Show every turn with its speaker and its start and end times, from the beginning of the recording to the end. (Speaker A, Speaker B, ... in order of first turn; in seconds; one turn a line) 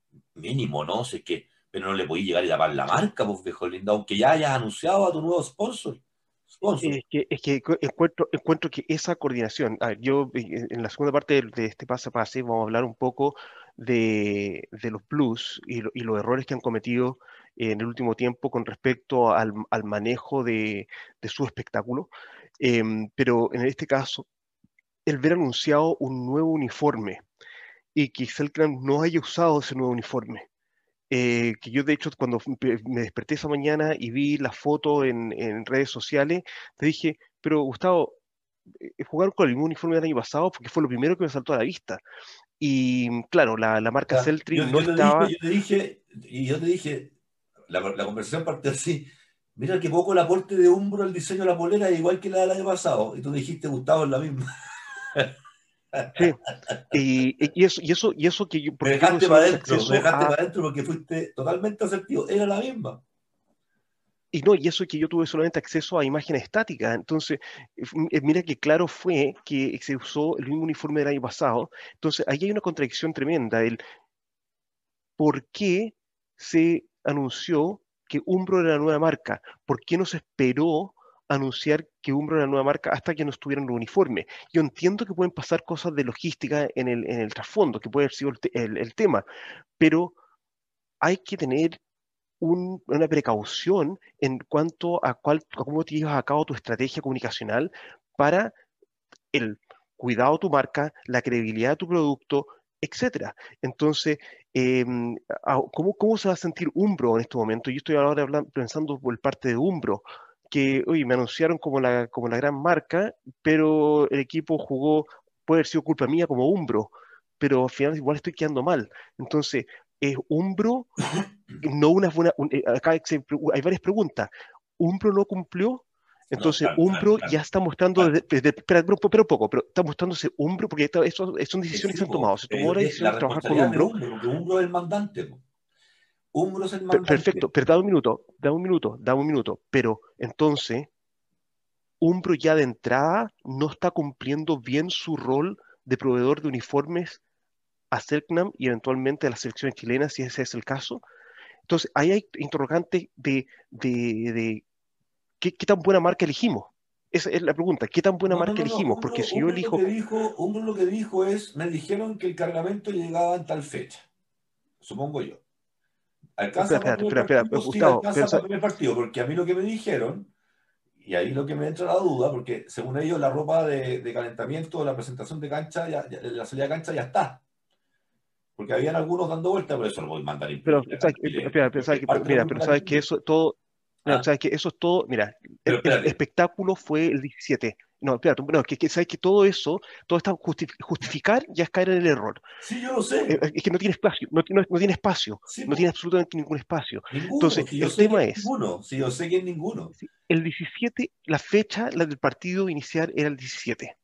Speaker A: 0.3-7.0
Speaker B: 6.8-22.1
Speaker B: 22.6-24.3
Speaker B: 25.1-27.2
Speaker B: 27.9-30.5
Speaker B: 31.1-38.2
Speaker B: 38.8-42.0
Speaker B: 42.6-45.3
Speaker A: 44.1-47.1
Speaker A: 47.7-54.4
Speaker A: 55.9-56.8
Speaker B: 56.1-60.4
Speaker A: 58.8-63.0
Speaker B: 64.3-73.8
Speaker B: 75.2-89.2
Speaker B: 89.8-90.2
Speaker B: 91.0-91.8
Speaker B: 92.4-98.5
Speaker B: 99.3-120.9
Speaker B: 121.6-133.9
Speaker A: 126.3-127.3
Speaker A: 131.7-135.4
Speaker A: 136.3-137.5
Speaker B: 136.9-140.9
Speaker B: 142.0-147.2
Speaker B: 147.9-151.0
Speaker B: 151.7-154.6
Speaker B: 155.4-159.9
Speaker A: 158.3-164.1
Speaker A: 164.8-165.4
Speaker A: 166.4-170.3
Speaker B: 166.6-168.4
Speaker A: 171.0-177.4
Speaker A: 178.6-183.1
Speaker B: 180.6-192.4
Speaker A: 185.7-186.2
Speaker A: 192.6-193.4
Speaker B: 193.3-198.5
Speaker A: 195.5-195.8
Speaker A: 197.1-199.9
Speaker B: 199.9-203.9